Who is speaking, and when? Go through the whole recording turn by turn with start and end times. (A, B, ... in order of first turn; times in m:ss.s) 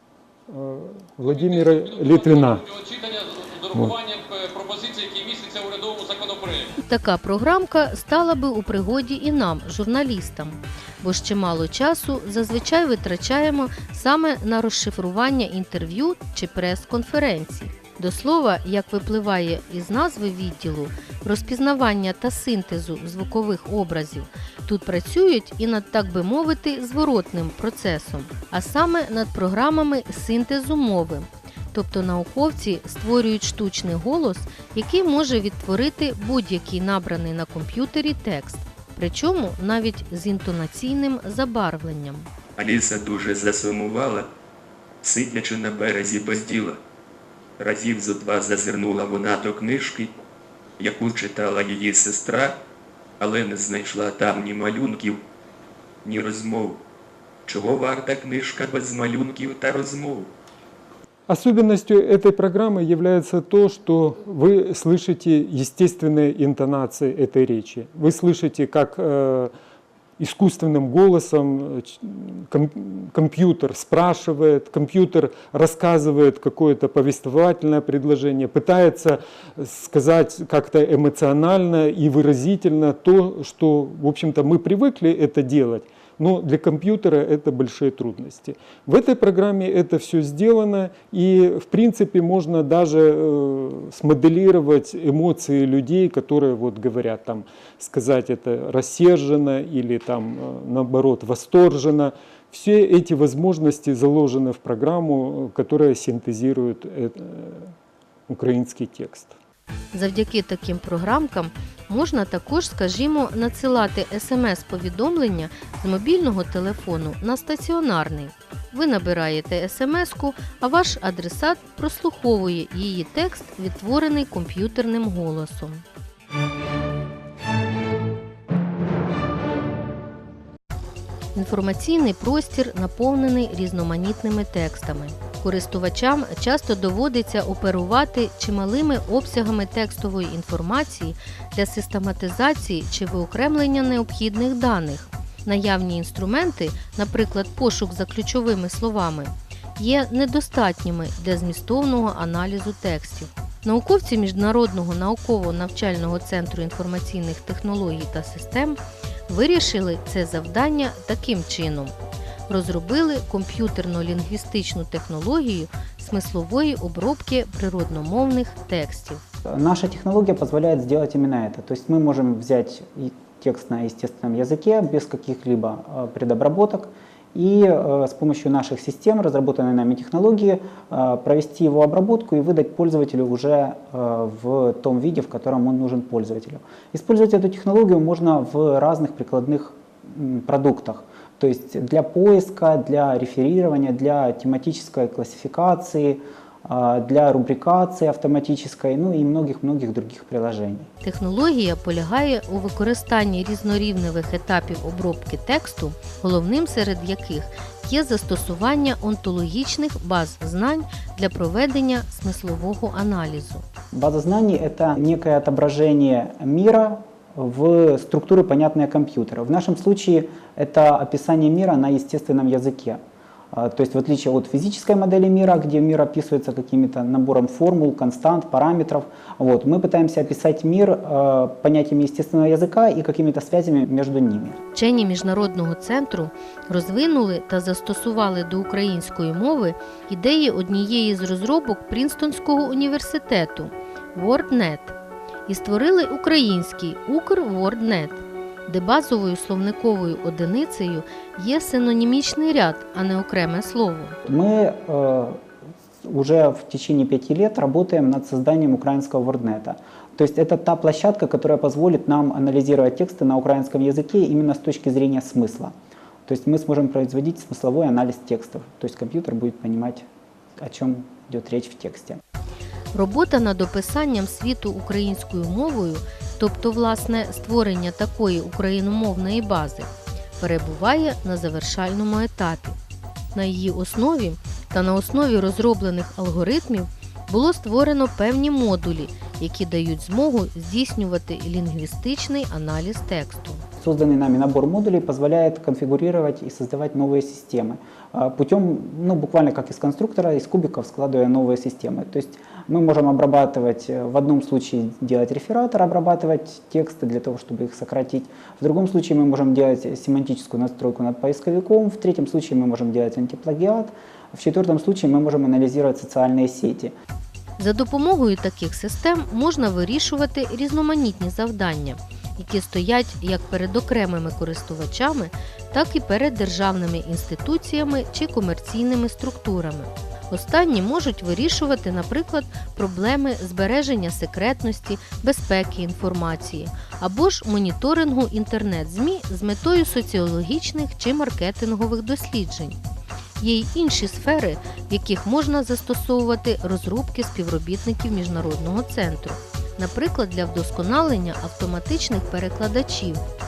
0:00.5-0:02.6 A
0:01.2-0:06.7 B
0:03.7-0:04.0 A
0:06.8-0:42.3 C
0:42.6-0:44.3 D
0:45.0-0:46.8 D
0:47.6-0:50.1 D
0:50.8-0:52.6 D
0:53.2-0:55.2 D
0:56.0-0:56.8 D
0:57.4-1:00.3 D
1:01.3-1:09.5 A
1:10.2-1:47.7 A
1:48.3-1:49.3 A
1:49.9-2:05.8 C
2:11.4-2:41.9 C
2:42.5-2:49.2 C
2:49.4-3:20.9 E
3:21.0-3:33.6 C
3:33.9-3:43.0 E
3:43.5-3:54.6 E
3:54.7-4:04.9 C
4:05.5-4:14.2 C
4:14.2-4:15.4 E
4:16.0-4:25.7 E
4:26.3-4:30.1 E
4:30.6-4:32.2 E
4:32.9-4:42.8 C
4:43.4-4:53.6 C
4:53.8-5:16.9 E
5:17.6-5:42.8 C
5:43.4-5:53.2 C